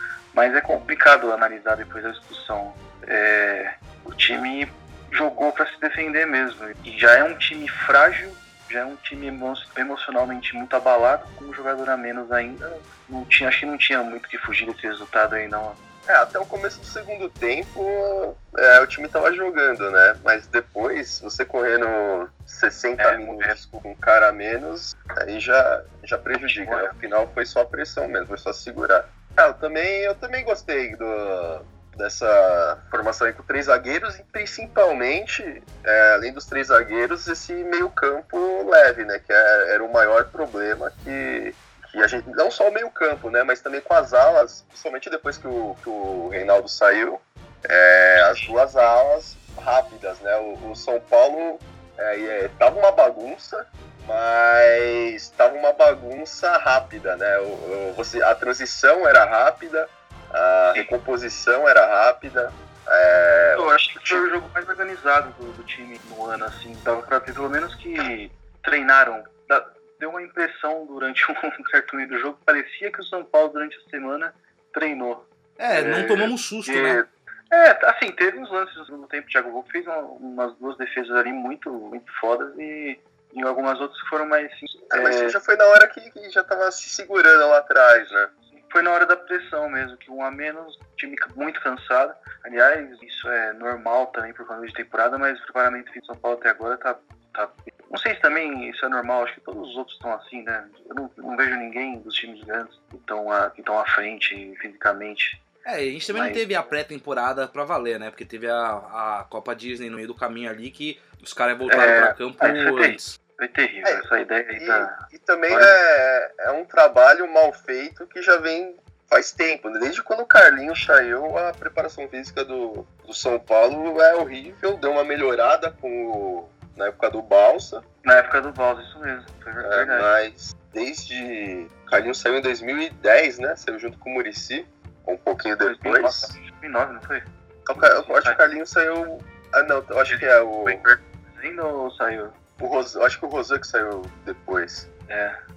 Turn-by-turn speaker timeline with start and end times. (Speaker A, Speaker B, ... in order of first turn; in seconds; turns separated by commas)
Speaker A: 0.3-15.8, Speaker B: 16.1-64.2, Speaker A: 23.0-23.6, Speaker A: 26.4-26.9, Speaker A: 48.1-48.6, Speaker A: 63.5-85.4, Speaker C: 75.6-77.0, Speaker B: 84.9-88.3, Speaker A: 88.5-105.4, Speaker C: 105.6-113.1, Speaker A: 106.1-106.4, Speaker A: 111.7-115.8, Speaker B: 114.6-127.8, Speaker A: 128.0-130.1, Speaker B: 129.6-136.4, Speaker A: 135.6-138.4, Speaker B: 137.7-140.9, Speaker A: 140.1-142.3, Speaker B: 142.6-144.9, Speaker A: 145.1-145.4